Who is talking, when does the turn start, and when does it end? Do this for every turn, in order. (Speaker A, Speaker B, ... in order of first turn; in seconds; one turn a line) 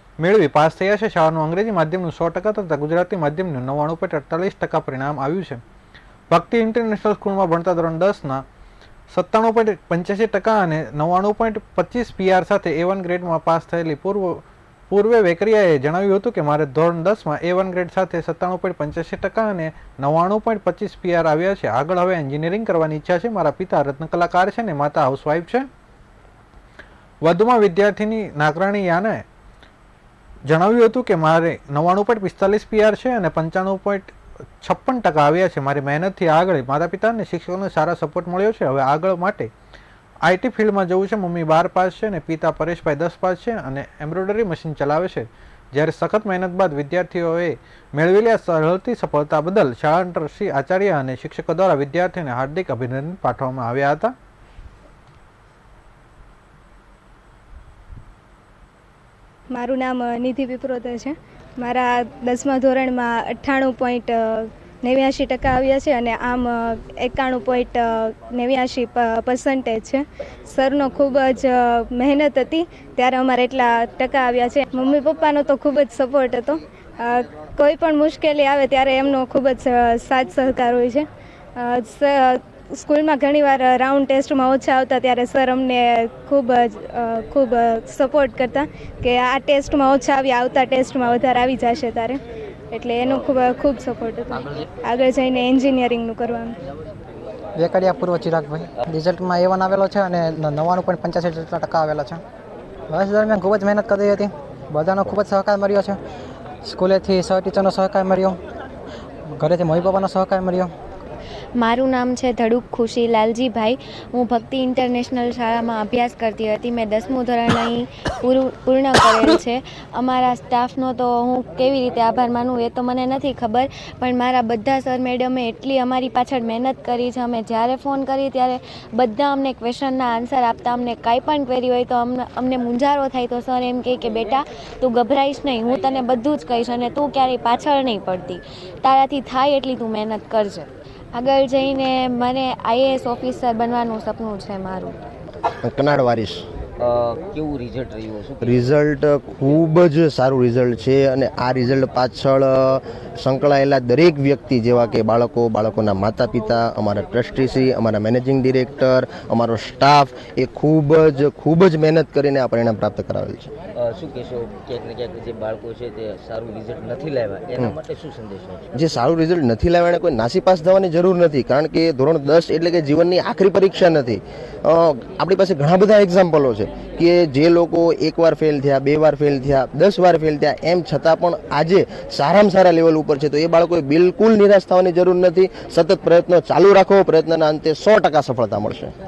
Speaker A: 0.2-5.6
Speaker A: 6.3-8.4
Speaker A: 9.1-25.7
Speaker A: 27.2-29.2
Speaker A: 30.5-39.5
Speaker A: 40.2-54.1
Speaker B: 59.5-96.5
Speaker C: 97.5-102.2
Speaker C: 102.9-106.0
Speaker C: 106.6-108.4
Speaker C: 109.3-110.7
Speaker D: 111.5-145.0
Speaker E: 145.6-146.4
Speaker F: 146.8-148.7
Speaker E: 148.4-163.5
Speaker F: 163.8-168.7
Speaker E: 168.7-188.9